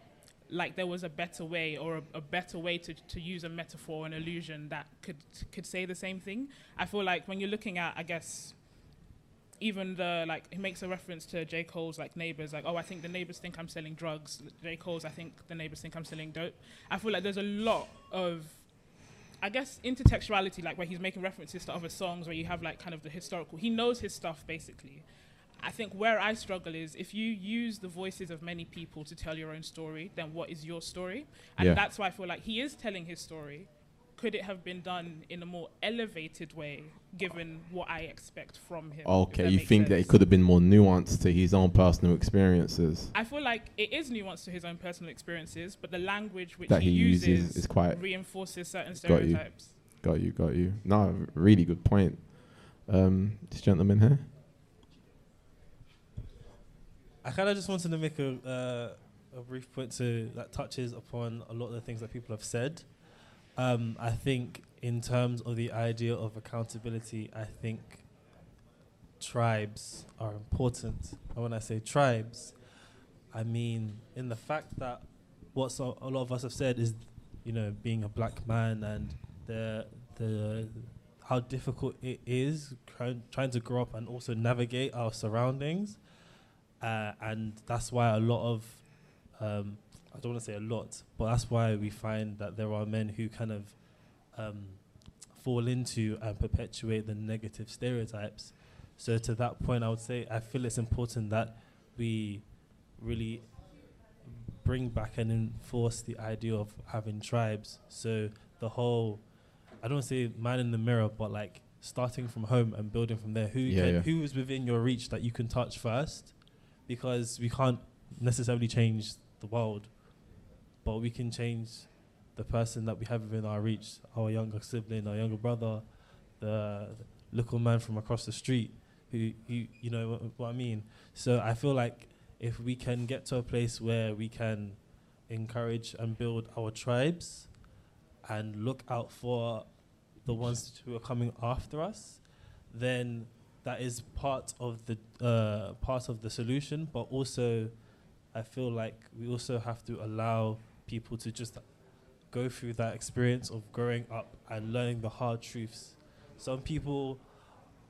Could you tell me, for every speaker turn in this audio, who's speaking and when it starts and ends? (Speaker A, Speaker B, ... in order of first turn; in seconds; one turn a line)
Speaker A: 0.5-8.6
Speaker A: 9.6-25.1
Speaker A: 25.6-40.3
Speaker B: 39.0-43.1
Speaker A: 43.1-49.7
Speaker B: 46.7-54.3
Speaker C: 57.2-68.1
Speaker C: 69.2-72.6
Speaker C: 73.3-86.1
Speaker C: 86.8-103.7
Speaker C: 104.2-137.7
Speaker B: 113.6-114.1
Speaker C: 138.2-157.6